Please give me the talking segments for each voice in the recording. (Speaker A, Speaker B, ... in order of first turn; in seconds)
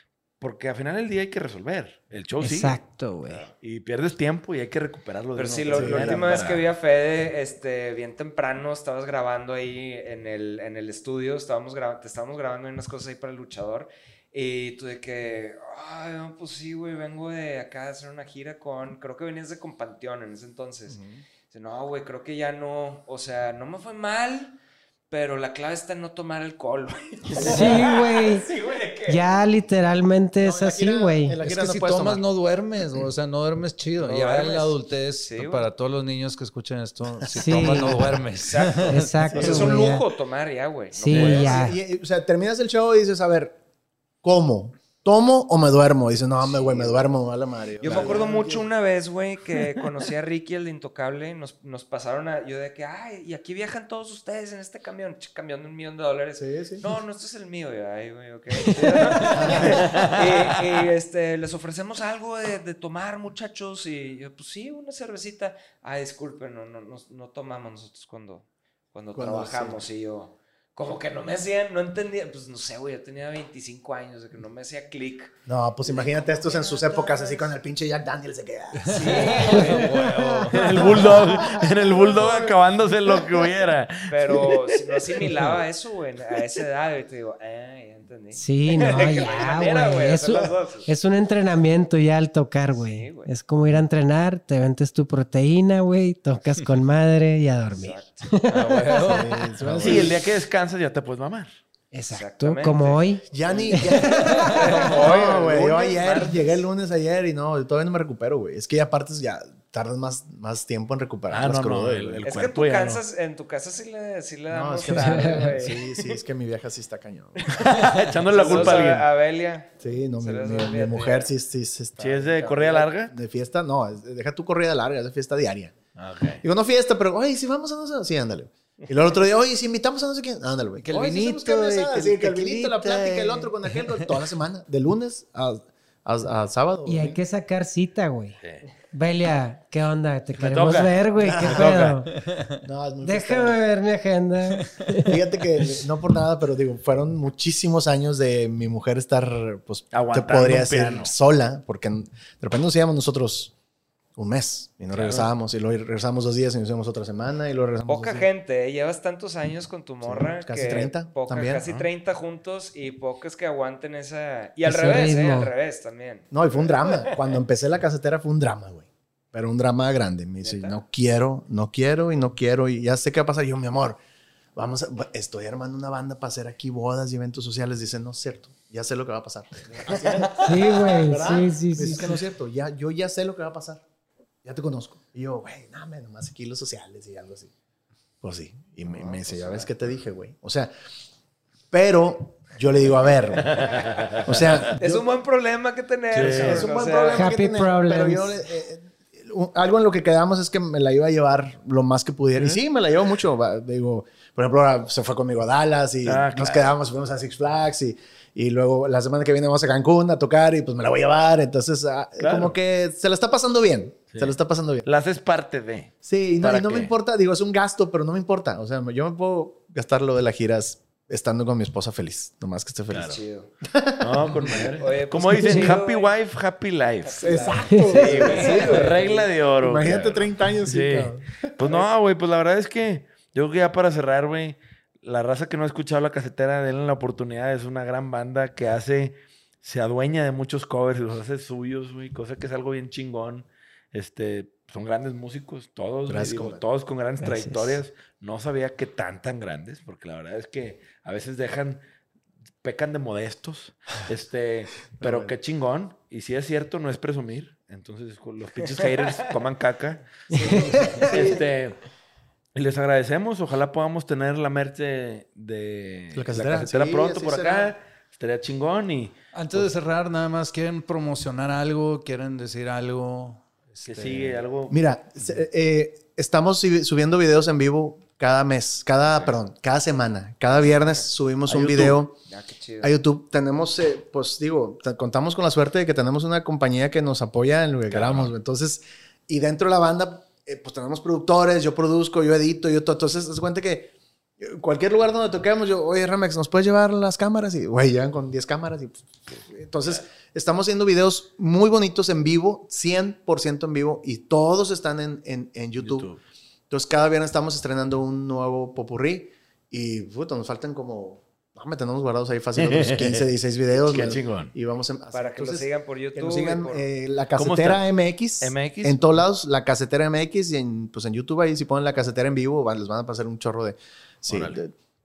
Speaker A: 0.4-2.8, 3.6-6.6, 41.1-41.4, 47.8-48.3, 59.5-60.5, 80.5-85.2, 98.5-99.0, 99.8-101.5, 104.6-106.6, 111.3-113.0, 117.6-119.1, 122.0-123.1, 126.0-126.4, 138.4-138.7, 140.4-142.0, 149.9-151.1, 154.9-155.3, 161.6-161.9, 166.9-167.2, 179.9-180.4, 188.9-189.7, 193.4-194.7, 196.1-196.7, 202.3-202.6, 206.0-206.7, 212.2-212.5, 214.1-216.9, 222.9-223.2, 224.0-227.6, 228.1-251.8, 252.6-261.8, 262.6-269.7, 273.9-274.8, 281.5-282.0, 287.9-288.3, 299.3-300.1, 305.8-306.2, 312.6-313.2, 313.8-314.5, 317.4-317.8, 318.4-319.2, 324.3-324.6
Speaker B: 2.4-3.5, 27.4-28.5, 29.1-31.4, 37.4-37.9, 38.9-40.0, 40.9-41.8, 79.5-80.7, 88.3-99.4, 101.9-104.6, 114.9-115.5, 136.8-138.4, 138.9-142.1, 143.0-145.1, 164.7-165.5, 180.4-182.2, 197.2-198.3, 225.4-225.8, 227.7-228.3, 247.2-247.8, 260.3-260.6
Speaker C: 5.3-21.0, 21.5-24.6, 25.1-29.3, 34.0-35.7, 37.8-41.6, 46.4-47.0, 47.8-77.5, 78.9-79.9, 82.0-82.5, 84.1-90.9, 92.7-93.3, 97.7-98.4, 102.1-103.8, 104.5-105.4, 112.2-115.8, 118.3-121.3, 157.9-166.3, 170.4-170.8, 194.8-197.2, 223.1-223.5, 224.6-226.2, 227.0-229.3, 258.6-259.2, 261.0-261.4, 280.7-281.1, 282.3-282.9, 315.1-316.8
Speaker D: 5.7-6.4, 20.9-21.2, 27.3-27.8, 30.4-32.2, 37.1-38.2, 39.2-39.8, 41.1-43.6, 44.2-48.7, 56.4-56.9, 59.3-59.8, 69.1-69.8, 75.5-79.4, 81.8-82.4, 99.1-100.2, 103.3-112.4, 114.5-119.0, 119.8-125.8, 126.4-137.2, 141.2-141.8, 142.6-143.6, 145.1-153.5, 154.2-158.3, 160.0-161.6, 166.3-174.0, 174.6-183.8, 184.4-187.5, 188.2-190.7, 191.7-195.1, 196.1-214.9, 216.0-224.8, 227.2-229.1, 229.6-231.8, 246.1-246.6, 255.0-255.3, 260.3-261.4, 266.1-267.7, 274.7-282.2, 282.8-306.1, 306.7-324.7
Speaker E: 31.4-39.9, 78.9-80.6, 98.9-100.1, 130.8-133.5, 142.2-142.6, 269.3-274.4